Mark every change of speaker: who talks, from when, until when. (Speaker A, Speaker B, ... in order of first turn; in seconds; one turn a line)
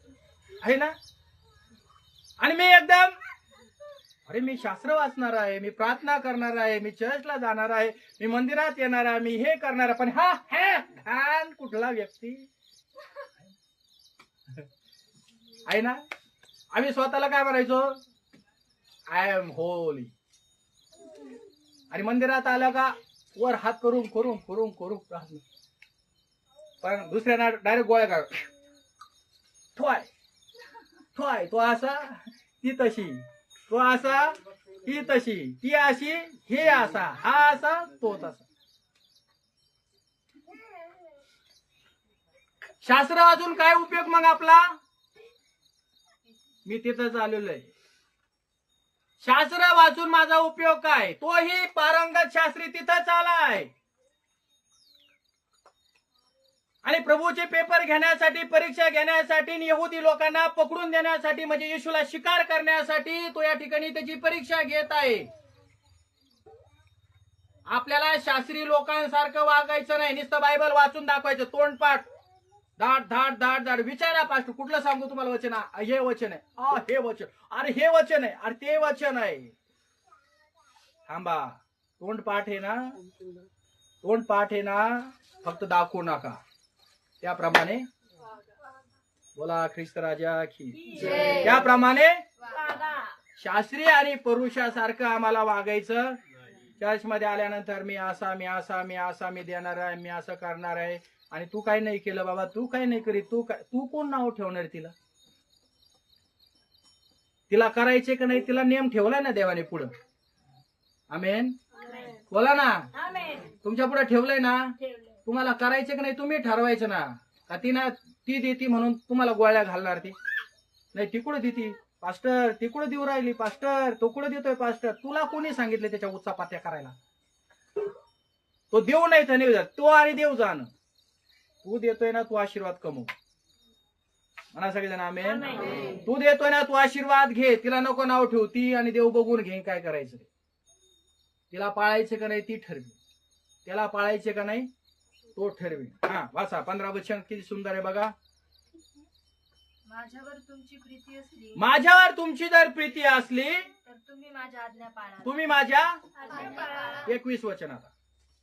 Speaker A: 0.6-0.9
Speaker A: 2.4-3.2
Speaker A: 4.3-12.5
Speaker A: 15.7-16.0
Speaker A: 16.7-18.0
Speaker A: 19.1-20.1
Speaker A: 21.9-25.4
Speaker A: 26.8-28.5
Speaker A: 29.8-30.1
Speaker A: 31.1-38.5
Speaker A: 42.8-44.8
Speaker A: 46.6-47.7
Speaker A: 49.2-53.7
Speaker A: 56.8-65.3
Speaker A: 67.7-72.1
Speaker A: 72.8-79.5
Speaker A: 81.1-83.0
Speaker A: 84.0-86.4
Speaker A: 87.2-87.9
Speaker A: 89.4-92.2
Speaker B: 91.0-91.5
Speaker B: 92.5-93.1
Speaker A: 93.4-96.2
Speaker A: 96.8-104.9
Speaker A: 107.5-109.9
Speaker A: 111.1-111.6
Speaker A: 112.3-112.9
Speaker B: 113.0-113.5
Speaker A: 113.6-120.2
Speaker A: 120.9-127.0
Speaker A: 128.7-130.7
Speaker A: 131.6-133.1
Speaker A: 134.5-140.3
Speaker A: 141.5-143.0
Speaker A: 143.7-144.7
Speaker A: 145.4-148.1
Speaker B: 149.9-151.7
Speaker A: 151.6-153.7
Speaker B: 153.8-155.4
Speaker A: 155.2-156.0
Speaker B: 156.2-157.1
Speaker A: 157.0-157.9